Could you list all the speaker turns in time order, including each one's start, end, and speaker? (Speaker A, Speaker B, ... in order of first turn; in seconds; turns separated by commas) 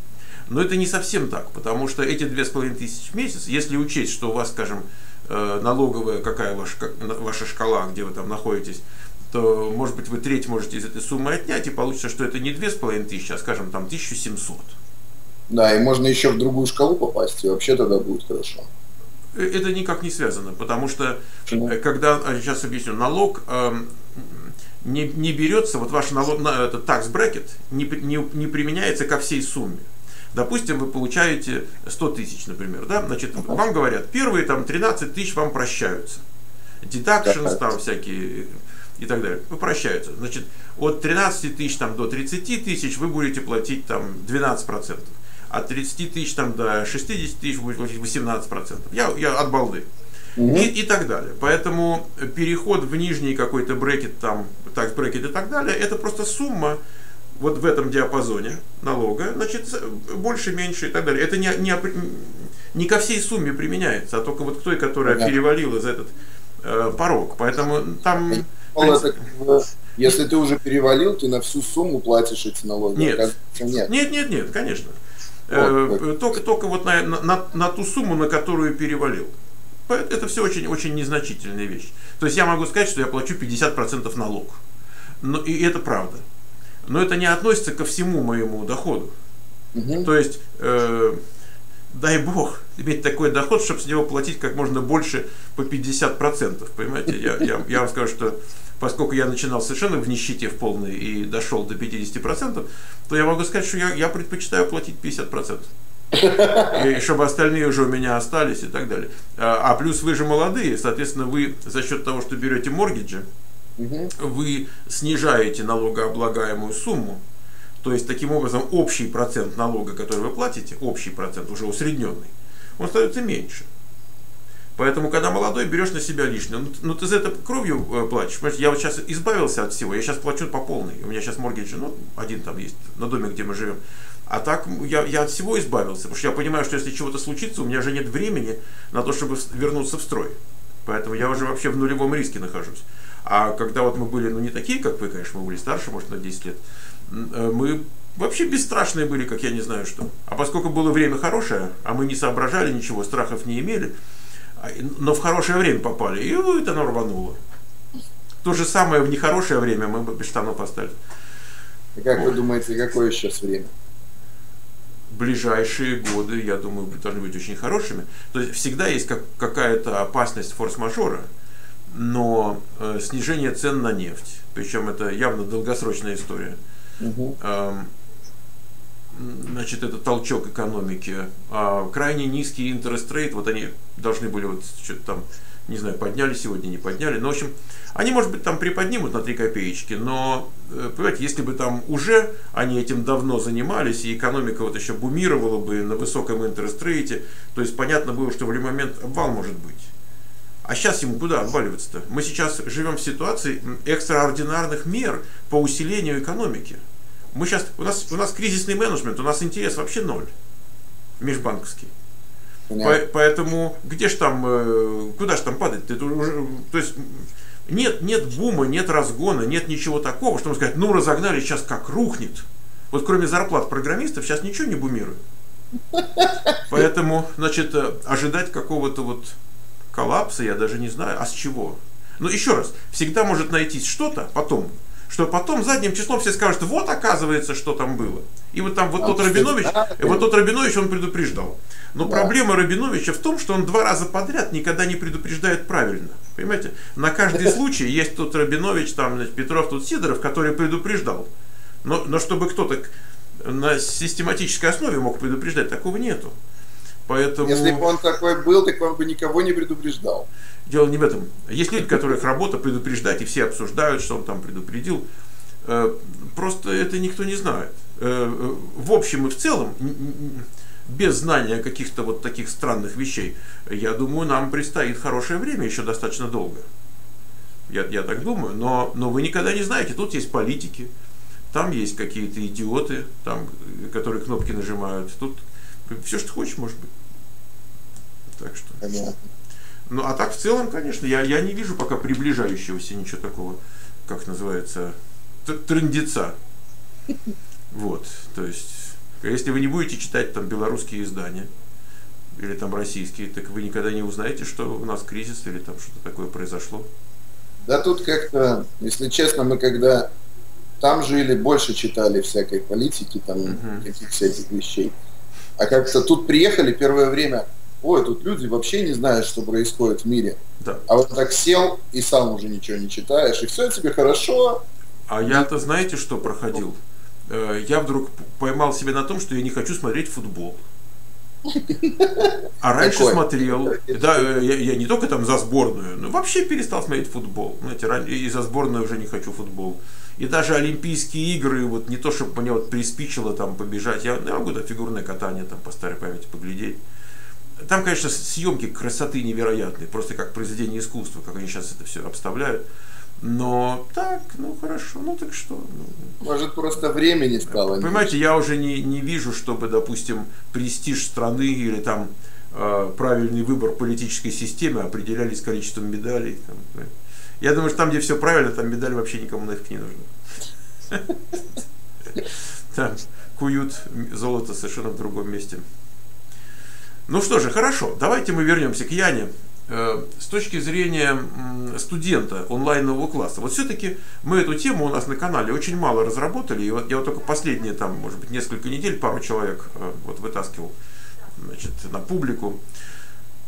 Speaker A: 0.5-14.8, Speaker B: 15.5-18.7, Speaker A: 19.3-36.2, Speaker B: 21.5-21.7, Speaker A: 36.8-49.9, Speaker B: 37.2-37.6, Speaker B: 50.4-50.7, Speaker A: 50.5-56.8, Speaker A: 57.4-69.2, Speaker B: 65.0-65.3, Speaker B: 68.2-73.9, Speaker A: 72.9-75.0, Speaker A: 75.5-79.3, Speaker B: 75.5-76.0, Speaker A: 79.9-84.6, Speaker A: 85.2-86.2, Speaker A: 86.8-89.1, Speaker B: 89.7-90.1, Speaker A: 90.0-91.2, Speaker A: 91.9-105.7, Speaker B: 106.1-106.8, Speaker A: 106.7-113.2, Speaker B: 113.8-114.1, Speaker A: 114.2-117.2, Speaker A: 117.8-123.7, Speaker A: 124.8-153.9, Speaker A: 154.6-157.4, Speaker A: 158.4-160.9, Speaker B: 161.9-163.7, Speaker A: 165.1-171.3, Speaker A: 171.9-176.6, Speaker B: 177.0-177.4, Speaker A: 177.4-177.9, Speaker A: 179.1-199.9, Speaker A: 200.6-206.8, Speaker A: 207.3-210.3, Speaker A: 211.2-211.9, Speaker B: 212.7-213.0, Speaker A: 212.8-225.2, Speaker B: 225.9-226.6, Speaker A: 226.7-229.3, Speaker A: 229.9-251.3, Speaker B: 239.0-240.3, Speaker B: 242.0-242.3, Speaker A: 251.8-256.4, Speaker A: 257.1-257.8, Speaker B: 257.4-260.3, Speaker A: 260.7-265.0, Speaker A: 265.6-276.6, Speaker A: 277.7-280.9, Speaker A: 281.5-286.9, Speaker A: 288.3-288.8, Speaker B: 288.8-289.2, Speaker A: 289.9-296.4, Speaker A: 297.7-301.5, Speaker A: 302.3-306.9, Speaker B: 307.6-310.1, Speaker B: 310.8-314.9, Speaker A: 313.4-313.9, Speaker B: 315.6-324.6, Speaker A: 325.1-330.6, Speaker B: 331.6-334.3, Speaker A: 332.6-346.8, Speaker A: 347.6-352.6, Speaker A: 353.2-356.2, Speaker B: 356.2-358.1, Speaker A: 357.5-370.1, Speaker A: 370.9-371.2, Speaker A: 372.2-375.6, Speaker A: 377.1-390.7, Speaker A: 391.4-392.6